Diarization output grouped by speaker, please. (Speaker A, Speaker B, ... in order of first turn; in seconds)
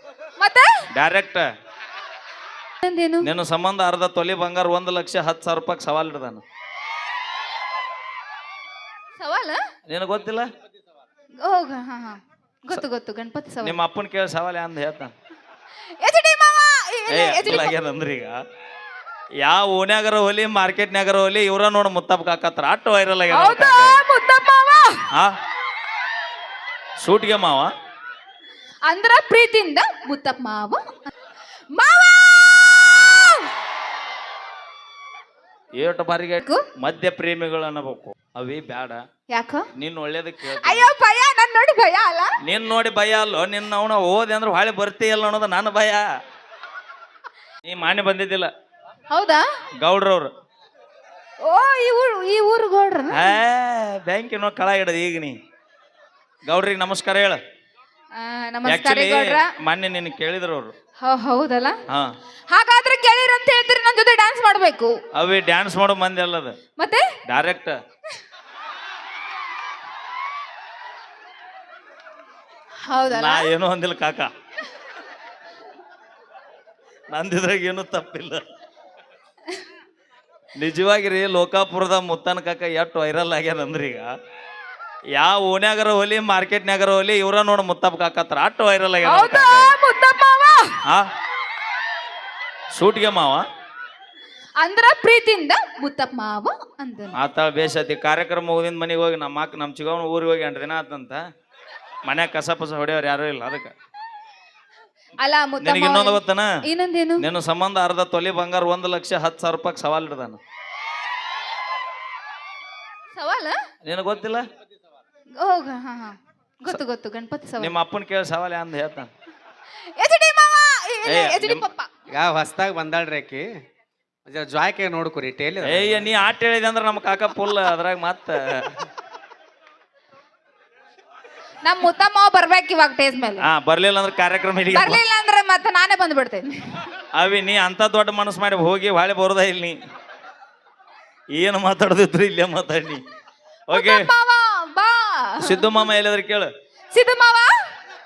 Speaker A: 0.4-0.9, 2.8-3.3, 9.2-9.6, 11.4-13.8, 16.0-17.8, 23.3-25.1, 28.9-31.1, 31.7-33.5, 39.3-39.7, 40.6-42.3, 49.1-49.4, 51.4-53.4, 58.2-59.5, 61.0-61.8, 62.5-64.9, 66.8-67.1, 72.9-73.5, 89.0-90.8, 94.6-97.2, 105.2-107.2, 113.1-113.6, 115.4-117.7, 120.0-121.9, 131.6-133.4, 134.7-136.9, 143.7-145.9, 146.9-147.5
Speaker B: 0.9-1.5, 3.2-6.4, 9.9-10.5, 13.6-15.1, 17.1-18.4, 19.4-24.0, 27.0-27.7, 35.8-39.0, 39.8-40.9, 42.4-46.0, 47.6-48.5, 49.8-50.3, 53.1-55.3, 56.5-57.4, 58.6-60.7, 65.2-66.5, 67.3-67.8, 73.1-74.3, 77.1-78.4, 80.6-84.1, 85.2-89.7, 92.7-93.5, 97.2-101.2, 102.1-103.7, 105.6-106.5, 107.2-110.4, 113.8-114.4, 117.6-119.1, 121.0-121.7, 125.6-128.8, 133.4-135.0, 137.1-139.8, 141.3-143.0, 143.7-144.1, 145.4-146.5
Speaker C: 122.1-123.5, 124.3-126.1